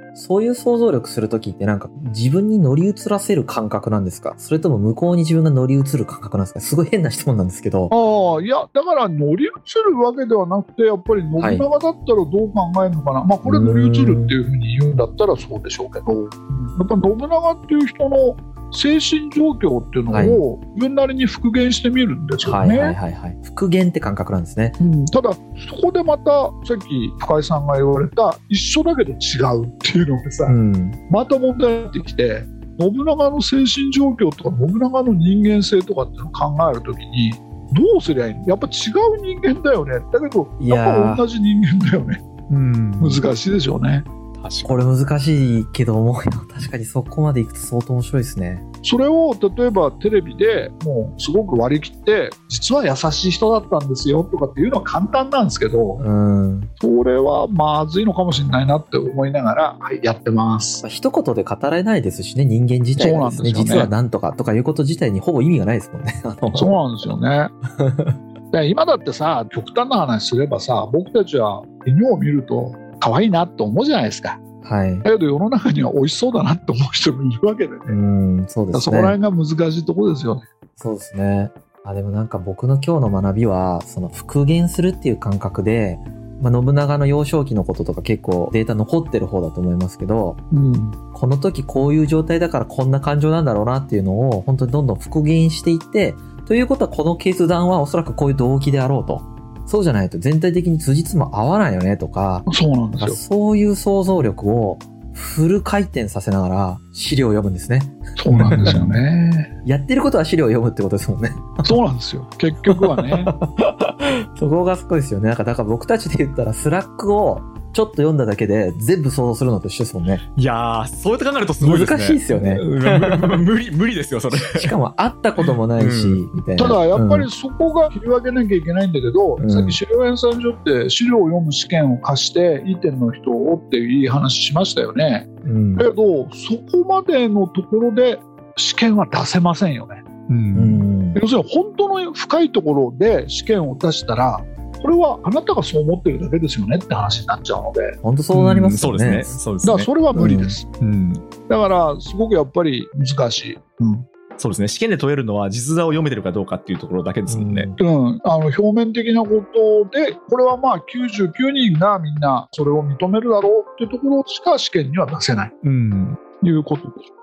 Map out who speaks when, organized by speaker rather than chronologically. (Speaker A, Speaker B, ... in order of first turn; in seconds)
Speaker A: 0.1-7.9, 11.4-11.7, 13.4-14.4, 20.1-20.4, 22.4-24.8, 30.5-31.0, 40.6-41.2, 44.6-48.6, 56.0-56.7, 60.8-66.8, 67.8-68.2, 74.6-75.1, 77.9-79.2, 80.8-90.4, 91.1-108.8, 109.7-111.8, 112.7-120.2, 121.6-123.3, 124.3-127.3, 129.4-129.8, 135.4-135.9, 140.5-141.2, 148.0-149.4, 150.1-150.6, 157.3-157.8
Speaker B: 7.9-23.0, 24.8-30.6, 31.1-42.2, 43.0-44.1, 48.8-56.0, 56.8-60.8, 63.0-63.9, 66.5-67.5, 68.5-74.4, 75.0-78.0, 78.7-80.5, 90.5-91.0, 102.5-103.2, 108.2-109.5, 111.6-113.3, 126.6-140.0, 141.1-148.0, 149.6-150.7, 151.5-154.1, 157.8-165.5, 166.4-167.1
Speaker C: 42.5-43.2, 44.4-44.9, 108.3-108.8, 120.4-124.7, 125.4-126.2, 140.3-140.9, 148.3-149.9, 150.8-151.2, 154.4-157.7, 165.6-166.2